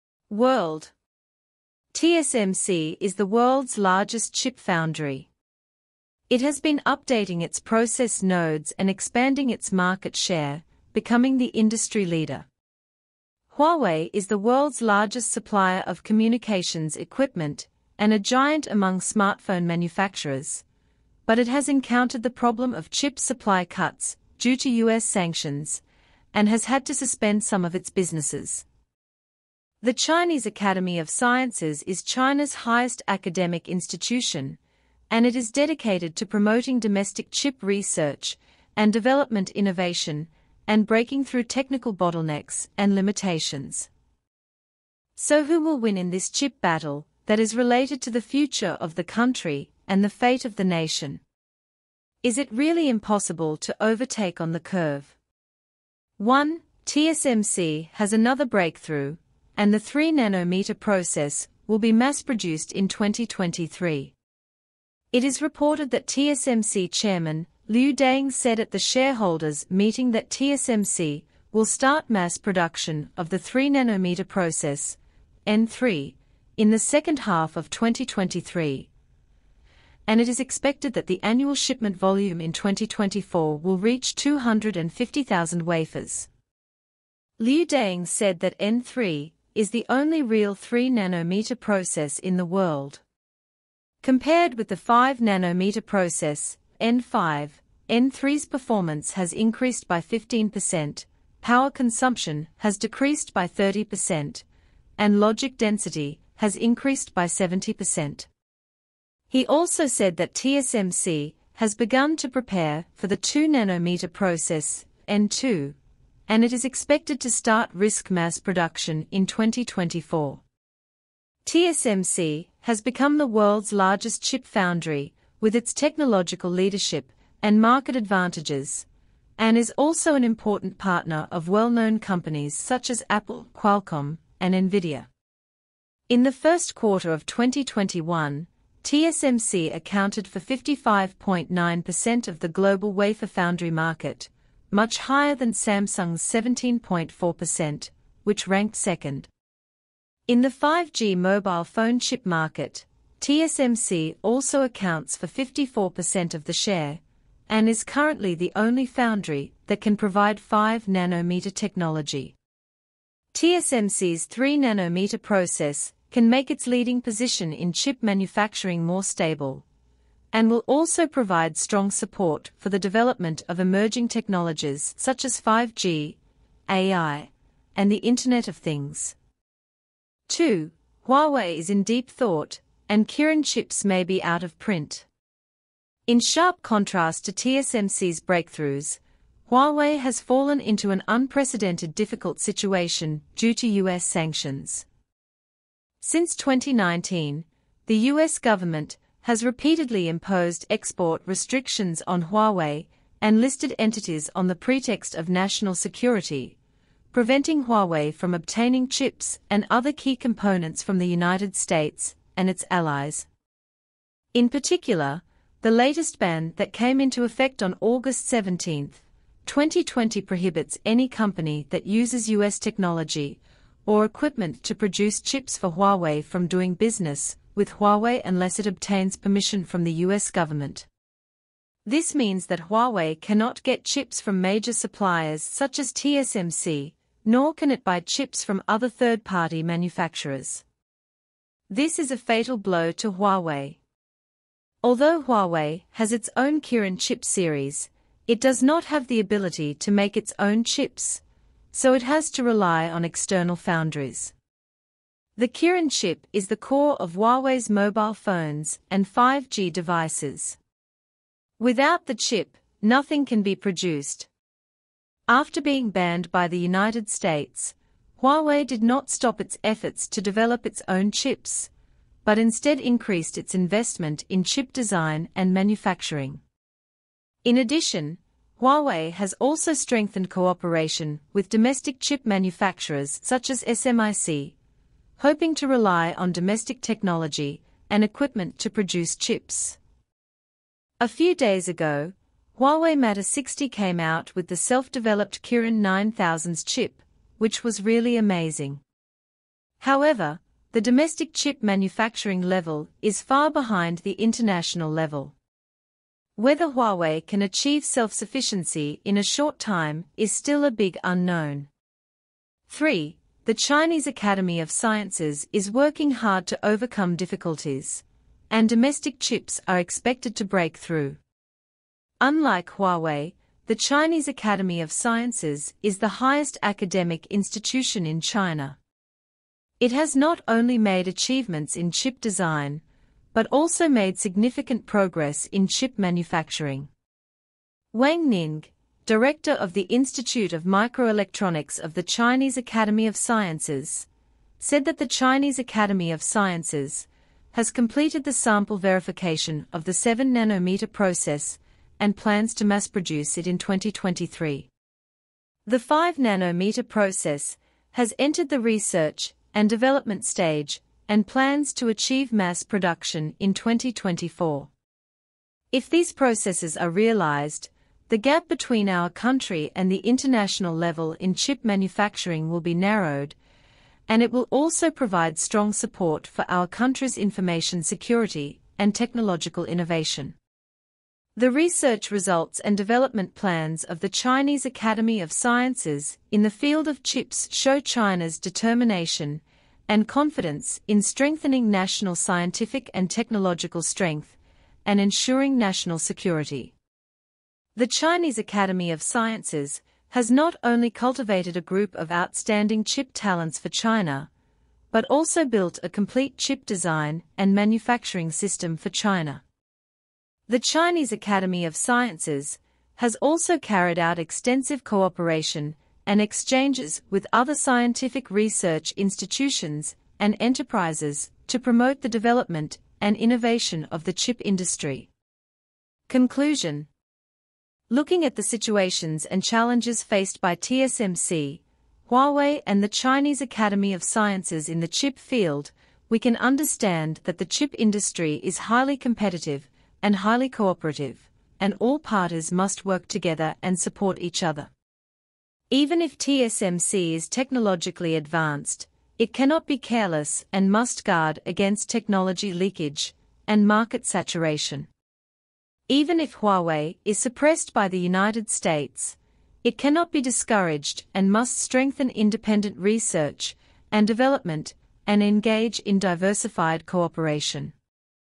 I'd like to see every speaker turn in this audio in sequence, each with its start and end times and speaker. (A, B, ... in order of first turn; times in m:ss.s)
0:00.3-0:00.9 A
0:01.9-0:05.3 A
0:06.3-0:12.5 A
0:13.5-0:20.6 A
0:21.3-0:25.8 A
0:26.3-0:28.6 A
0:29.8-0:34.6 A
0:35.1-0:43.9 A
0:45.2-0:51.2 A
0:52.2-0:55.2 A
0:56.2-1:04.2 A
1:05.1-1:18.9 A
1:20.1-1:26.3 A
1:27.4-1:33.0 A
1:34.0-1:44.4 A
1:45.0-1:48.3 A
1:49.3-1:55.8 A
1:56.3-2:00.4 A
2:01.4-2:08.9 A
2:09.4-2:15.1 A
2:16.1-2:29.3 A
2:30.3-2:42.4 A
2:43.3-2:49.6 A
2:50.3-2:59.2 A
3:00.3-3:05.1 A
3:06.1-3:14.9 A
3:16.0-3:26.6 A
3:27.1-3:33.3 A
3:34.3-3:50.9 A
3:51.9-4:00.6 A
4:01.7-4:03.8 A
4:04.8-4:11.2 A
4:11.7-4:14.3 A
4:15.4-4:20.6 A
4:21.6-4:24.3 A
4:25.3-4:31.7 A
4:32.2-4:36.4 A
4:37.4-4:44.6 A
4:45.2-4:49.8 A
4:51.0-4:58.8 A
4:59.8-5:05.4 A
5:06.4-5:11.7 A
5:12.7-5:21.2 A
5:22.2-5:28.8 A
5:29.8-5:32.8 A
5:33.3-5:36.9 A
5:37.9-5:44.1 A
5:44.6-5:54.7 A
5:55.7-6:04.7 A
6:05.7-6:13.4 A
6:14.1-6:20.4 A
6:21.4-6:36.7 A
6:37.8-6:44.3 A
6:44.9-6:49.4 A
6:50.5-7:05.1 A
7:06.1-7:06.9 A
7:07.9-7:24.7 A
7:25.7-7:34.9 A
7:35.9-7:47.7 A